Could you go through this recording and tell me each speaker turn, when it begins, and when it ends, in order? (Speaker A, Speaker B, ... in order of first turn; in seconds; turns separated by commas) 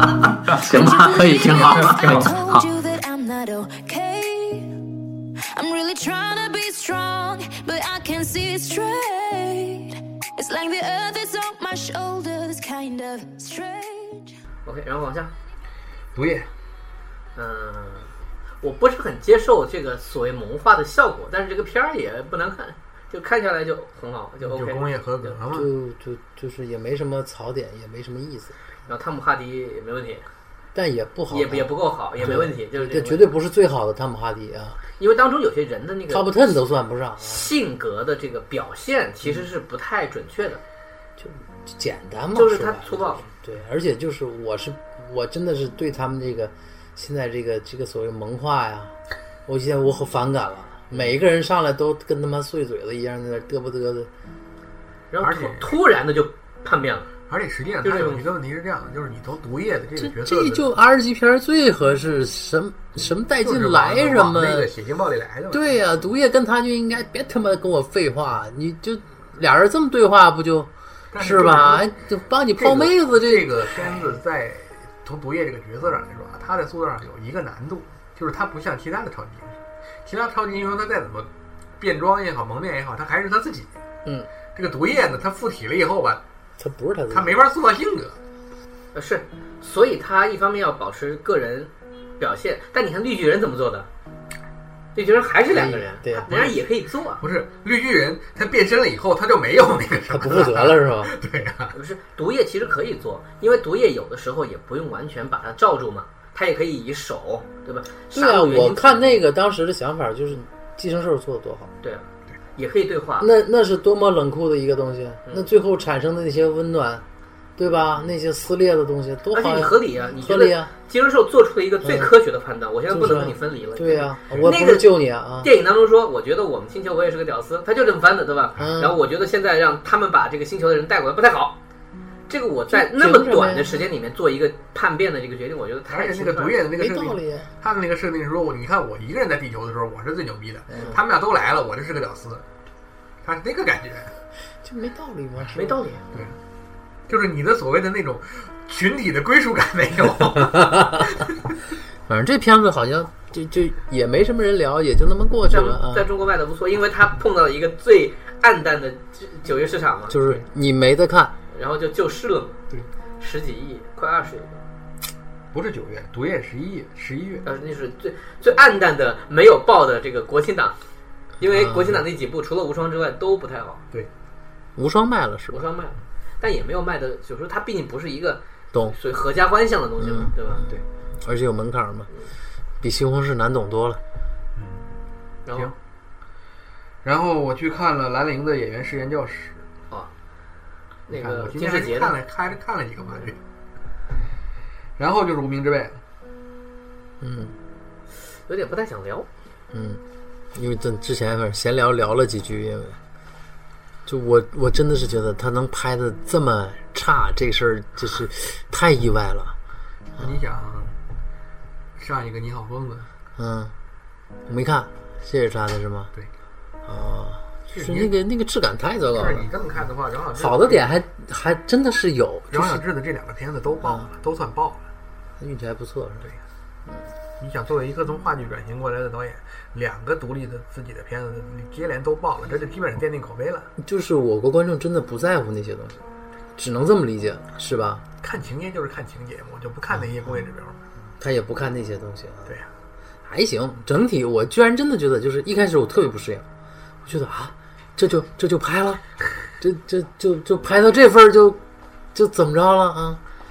Speaker A: 0.6-2.6, Speaker B: 1.0-4.8, Speaker C: 1.9-2.2, Speaker B: 5.5-14.4, Speaker D: 14.6-15.3, Speaker C: 16.1-16.5, Speaker D: 17.4-25.3, Speaker C: 24.4-25.7, Speaker E: 25.5-28.6, Speaker D: 28.9-30.3, Speaker E: 30.7-34.8, Speaker D: 31.3-33.3, Speaker D: 35.0-36.4, Speaker E: 36.1-37.5, Speaker D: 37.2-40.6, Speaker E: 41.2-54.1, Speaker D: 42.3-43.3, Speaker D: 55.1-57.1, Speaker C: 55.2-55.7, Speaker C: 57.3-60.7, Speaker D: 57.8-58.3, Speaker E: 60.0-64.7, Speaker C: 63.4-66.0, Speaker E: 65.5-74.2, Speaker C: 71.1-71.9, Speaker C: 72.6-83.7, Speaker C: 84.5-86.2, Speaker E: 86.6-87.4, Speaker C: 87.1-88.2, Speaker D: 88.9-93.9, Speaker D: 94.9-97.2, Speaker E: 95.5-96.3, Speaker C: 96.3-96.6, Speaker C: 97.2-101.7, Speaker E: 100.1-101.2, Speaker D: 101.7-109.2, Speaker E: 108.1-111.7, Speaker D: 112.6-113.3, Speaker E: 113.2-117.0, Speaker E: 117.6-120.7, Speaker D: 119.3-131.6, Speaker E: 121.8-122.1, Speaker E: 122.9-125.5, Speaker E: 128.6-129.0, Speaker D: 132.3-136.6, Speaker E: 132.7-133.7, Speaker C: 135.9-142.4, Speaker E: 136.8-137.5, Speaker E: 140.7-141.0, Speaker C: 143.2-144.1, Speaker E: 144.6-145.8, Speaker D: 145.5-146.1, Speaker C: 147.1-151.3, Speaker E: 150.5-151.0, Speaker E: 152.1-156.1, Speaker D: 155.5-160.2, Speaker E: 160.1-161.4, Speaker D: 161.5-162.6, Speaker D: 163.2-164.6, Speaker C: 165.5-167.4, Speaker D: 167.4-170.8, Speaker D: 171.4-173.8, Speaker E: 171.5-172.0, Speaker E: 174.8-175.7, Speaker D: 175.5-180.8, Speaker E: 180.0-180.7, Speaker E: 181.2-182.1, Speaker E: 182.8-184.0, Speaker C: 184.6-184.9, Speaker D: 185.5-185.7, Speaker C: 187.0-189.6, Speaker D: 191.1-192.2, Speaker C: 191.1-193.4, Speaker C: 195.0-196.0, Speaker E: 197.2-197.6, Speaker D: 198.5-199.3, Speaker E: 199.7-200.0, Speaker E: 200.5-203.0, Speaker E: 204.1-209.6, Speaker C: 210.2-210.9, Speaker C: 212.0-213.1, Speaker E: 213.4-213.7, Speaker E: 214.5-216.1, Speaker E: 216.8-219.5, Speaker C: 217.7-218.1, Speaker C: 219.1-220.9, Speaker E: 220.3-222.8, Speaker C: 222.5-224.9, Speaker E: 223.8-224.1, Speaker E: 225.4-226.3, Speaker C: 227.4-233.7, Speaker E: 233.8-236.0, Speaker E: 236.6-238.1, Speaker C: 238.2-240.8, Speaker E: 240.0-240.4, Speaker E: 241.2-242.5, Speaker E: 243.2-246.4, Speaker E: 247.0-249.0, Speaker E: 249.6-251.6, Speaker E: 252.1-253.2